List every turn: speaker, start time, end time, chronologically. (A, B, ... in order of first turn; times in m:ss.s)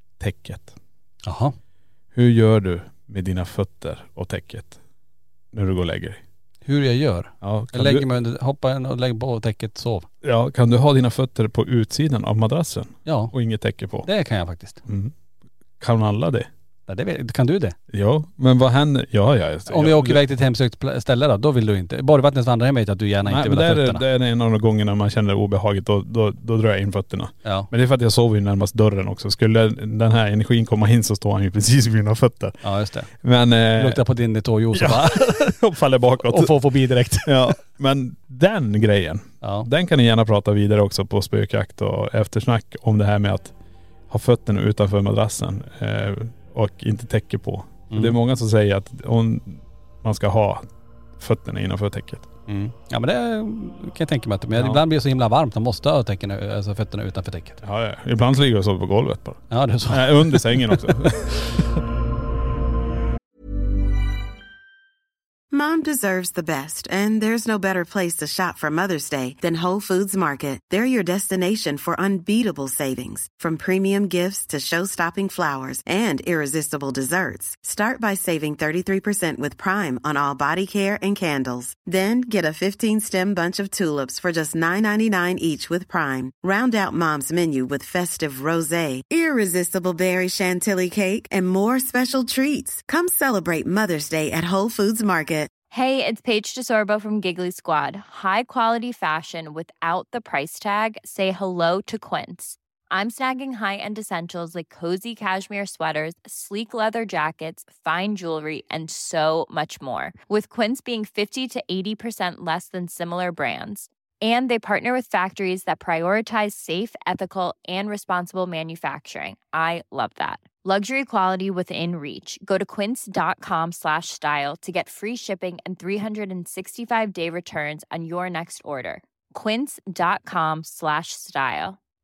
0:00.2-0:00.7 A
0:01.2-0:01.5 B
0:02.1-0:04.8 A
0:05.5-0:06.2 A
0:06.6-0:10.1 B
0:07.4-0:08.1 A
0:10.2-0:14.1 A
0:13.0-0:13.3 B
0:14.0-0:14.8 B
0:14.8-0:15.1 A
0:15.8-0:16.5 A
0:16.9-0:17.8 B
0:17.9-0:20.2 A
0:19.7-0:24.0 B
0:23.2-0:32.6 A
0:27.4-0:27.7 B
0:32.6-0:33.1 B
0:33.1-0:34.0 A
0:33.8-0:35.6 B
0:34.7-0:36.5 A
0:36.2-0:37.6 B
0:37.2-0:43.5 A
0:39.4-0:39.7 B
0:44.1-0:50.6 A
0:47.9-0:48.2 B
0:51.2-0:52.3 A
0:52.5-0:57.6 B
0:54.6-0:54.8 A
0:57.6-1:01.8 A
0:59.5-1:00.9 B
1:05.5-1:35.5 C
1:35.7-2:11.8 D